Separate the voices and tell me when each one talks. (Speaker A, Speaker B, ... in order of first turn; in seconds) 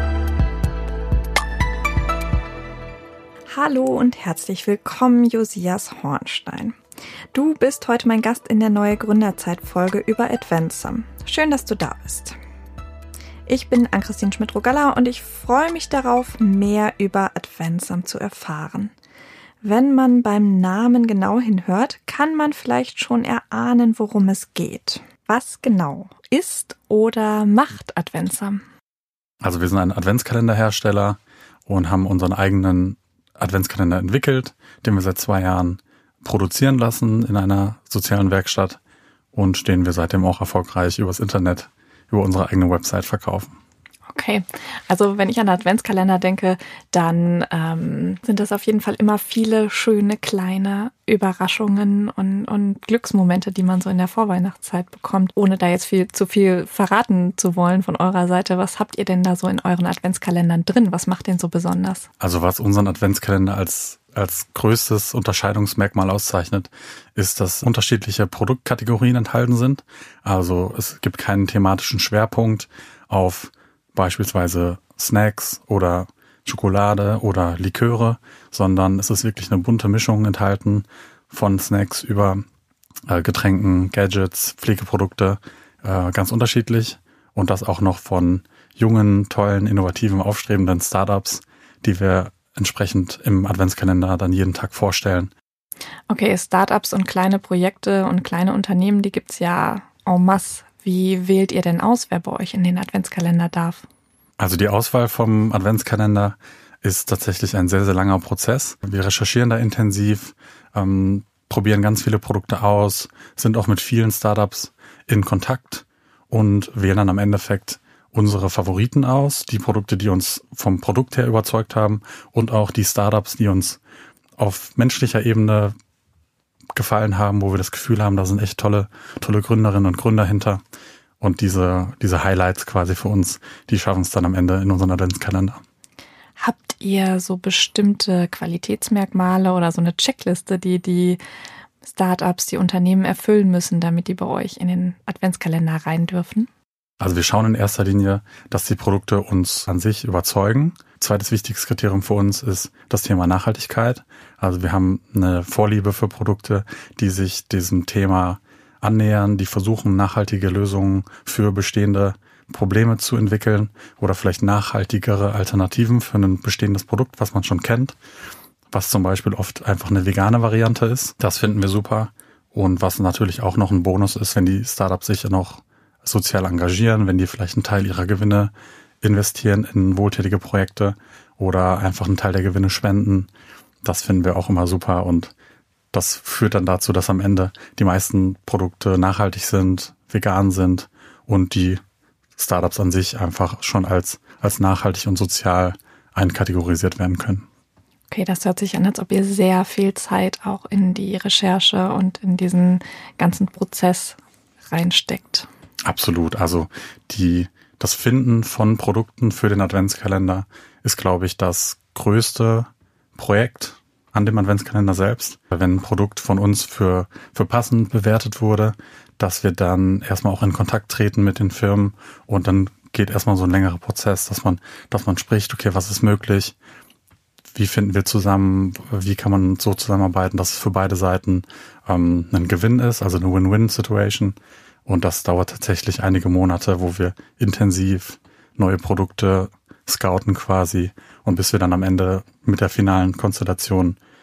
Speaker A: 3.5-6.8, 7.3-12.4, 13.4-18.9, 19.6-28.6, 44.1-62.1, 96.1-103.8, 136.4-141.2, 141.8-146.5, 198.1-204.2, 204.7-205.5
Speaker B: 29.4-38.8, 39.3-43.5, 62.2-82.4, 83.1-95.3, 104.4-123.8, 124.4-125.7, 126.7-130.6, 131.2-135.6, 147.0-168.0, 168.7-178.5, 179.0-183.3, 183.8-185.3, 185.9-191.8, 192.4-197.4, 205.8-226.6, 227.5-244.0